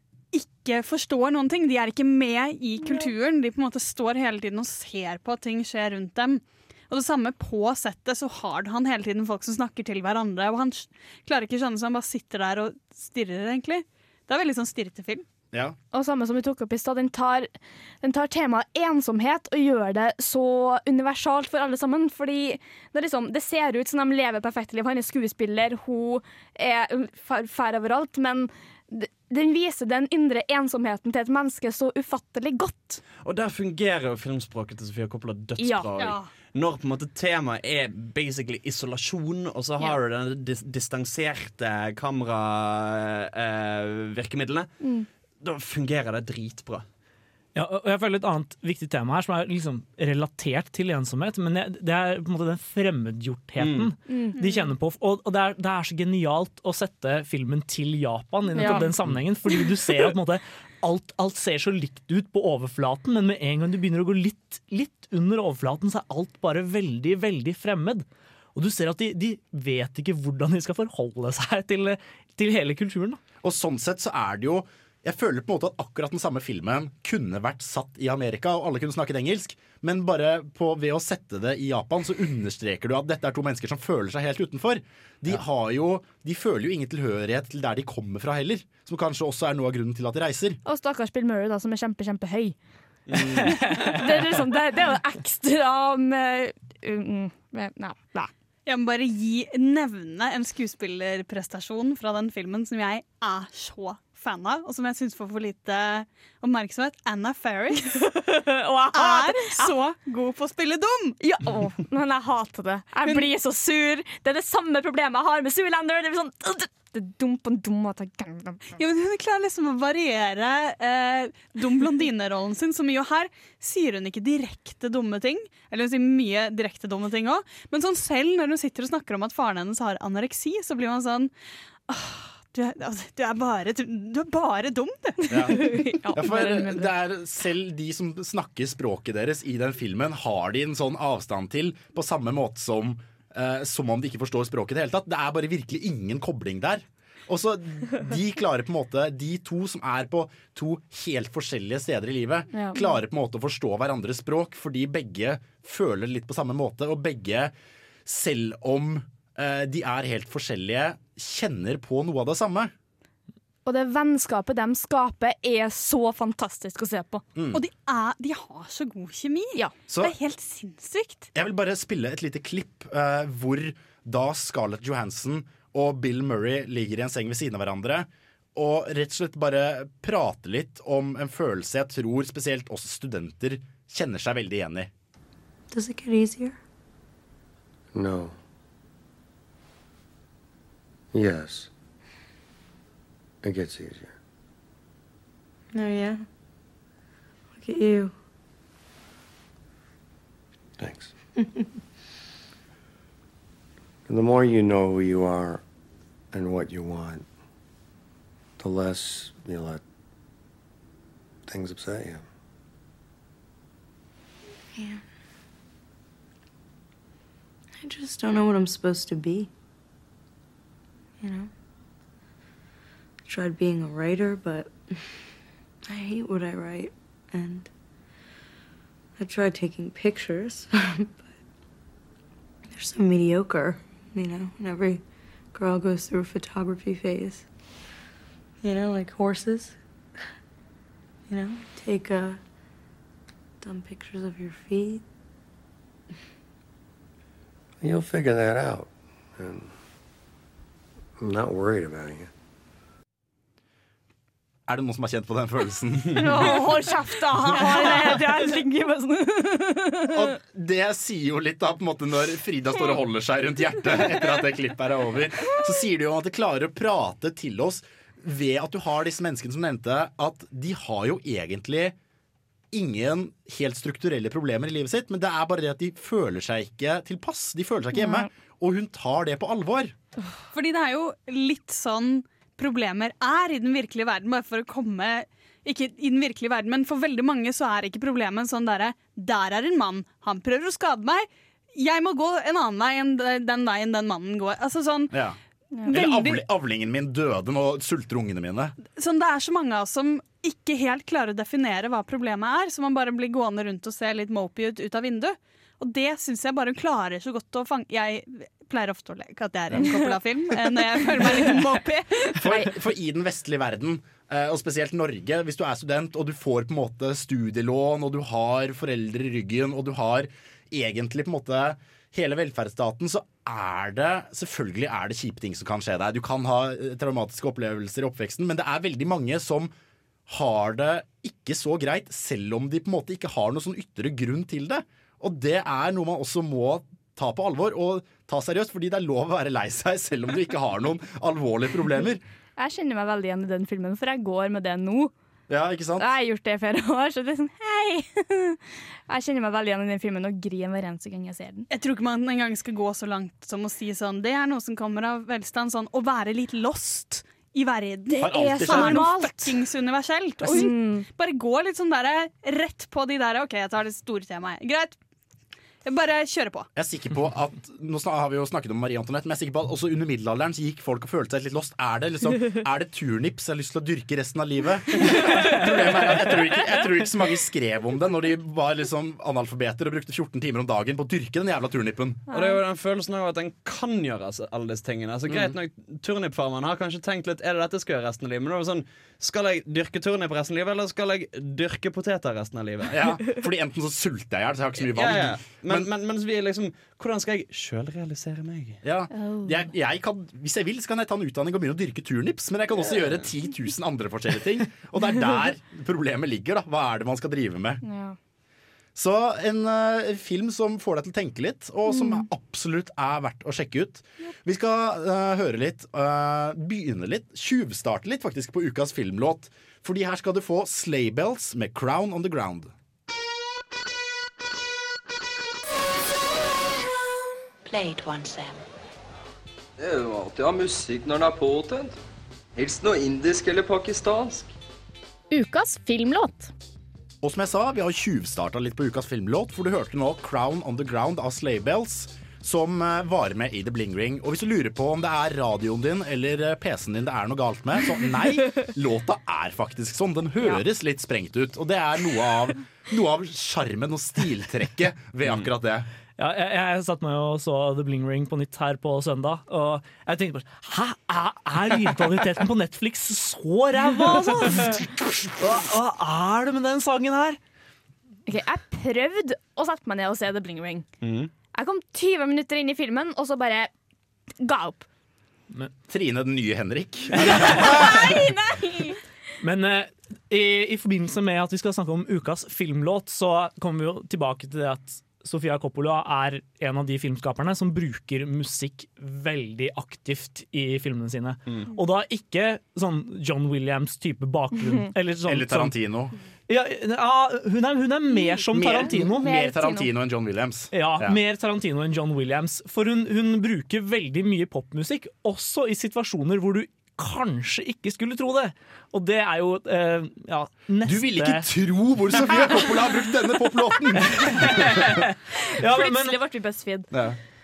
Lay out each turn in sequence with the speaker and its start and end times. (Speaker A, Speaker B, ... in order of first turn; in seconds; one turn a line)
Speaker A: 0.3-15.2
Speaker B: 15.9-17.5
Speaker B: 18.0-33.0
Speaker C: 33.2-44.7
Speaker B: 35.6-35.9
Speaker A: 36.0-36.3
Speaker B: 44.8-45.1
Speaker C: 45.4-46.8
Speaker D: 47.5-73.2
Speaker C: 53.6-53.9
Speaker B: 54.1-54.4
Speaker A: 54.4-54.7
Speaker B: 58.5-58.9
Speaker E: 73.4-90.6
Speaker B: 90.6-92.5
Speaker B: 93.1-98.3
Speaker A: 98.7-108.1
Speaker B: 107.9-109.7
Speaker A: 108.9-111.2
Speaker B: 111.2-118.8
Speaker A: 118.8-131.3
Speaker A: 131.9-135.8
Speaker E: 135.3-135.6
Speaker B: 135.4-136.9
Speaker E: 136.1-157.5
Speaker B: 152.5-152.9
Speaker E: 158.1-162.7
Speaker B: 163.6-167.2
Speaker E: 167.3-167.6
Speaker A: 167.5-171.3
Speaker E: 171.3-184.9
Speaker F: 185.7-186.6
Speaker G: 187.9-188.3
Speaker G: 191.1-191.7
Speaker G: 193.4-194.1
Speaker F: 195.7-196.2
Speaker F: 197.6-198.1
Speaker G: 200.8-201.1
Speaker F: 201.4-201.7
Speaker G: 204.1-205.6
Speaker G: 206.3-207.2
Speaker G: 208.6-209.8
Speaker G: 211.5-212.2
Speaker F: 214.7-215.0
Speaker F: 217.8-219.5
Speaker F: 221.2-221.5
Speaker F: 223.3-224.8
Speaker F: 225.9-227.7
Speaker F: 229.2-231.3
Speaker F: 232.7-235.0
Speaker F: 235.5-237.5
Speaker F: 238.6-239.8
Speaker F: 241.3-242.4
Speaker F: 243.6-245.0
Speaker G: 247.8-249.7
Speaker G: 251.2-252.3
Speaker E: 254.7-256.6
Speaker B: 256.1-260.2
Speaker A: 257.6-258.1
Speaker E: 260.1-271.9
Speaker E: 272.7-279.9
Speaker B: 277.9-278.3
Speaker A: 280.5-295.1
Speaker E: 295.1-298.7
Speaker A: 295.9-296.4
Speaker A: 298.9-312.4
Speaker E: 312.4-329.7
Speaker E: 330.3-342.2
Speaker B: 342.6-345.1
Speaker E: 345.5-346.1
Speaker B: 346.0-351.7
Speaker A: 351.7-365.0
Speaker B: 358.1-359.6
Speaker E: 358.2-359.1
Speaker B: 360.4-361.1
Speaker A: 365.8-366.7
Speaker E: 366.8-382.2
Speaker B: 382.3-382.6
Speaker C: 382.3-393.1
Speaker E: 385.3-385.6
Speaker E: 392.9-395.9
Speaker C: 394.8-398.8
Speaker E: 398.8-407.8
Speaker B: 399.1-399.6
Speaker B: 407.8-408.1
Speaker E: 408.9-422.7
Speaker B: 411.9-412.2
Speaker H: 429.8-432.0
Speaker H: 432.5-434.5
Speaker B: 435.3-436.5
Speaker E: 437.2-455.9
Speaker D: 456.2-464.8
Speaker B: 464.1-464.7
Speaker D: 465.4-467.4
Speaker B: 468.3-470.9
Speaker C: 471.0-471.3
Speaker B: 471.5-473.7
Speaker B: 474.4-474.9
Speaker E: 475.9-478.2
Speaker D: 477.3-477.6
Speaker B: 477.5-479.0
Speaker D: 479.4-495.7
Speaker E: 495.2-496.1
Speaker D: 496.5-499.3
Speaker B: 498.1-498.4
Speaker E: 498.5-501.2
Speaker B: 499.2-499.9
Speaker D: 500.7-511.5
Speaker E: 510.8-515.0
Speaker D: 514.4-516.1
Speaker B: 515.6-516.9
Speaker E: 516.9-517.2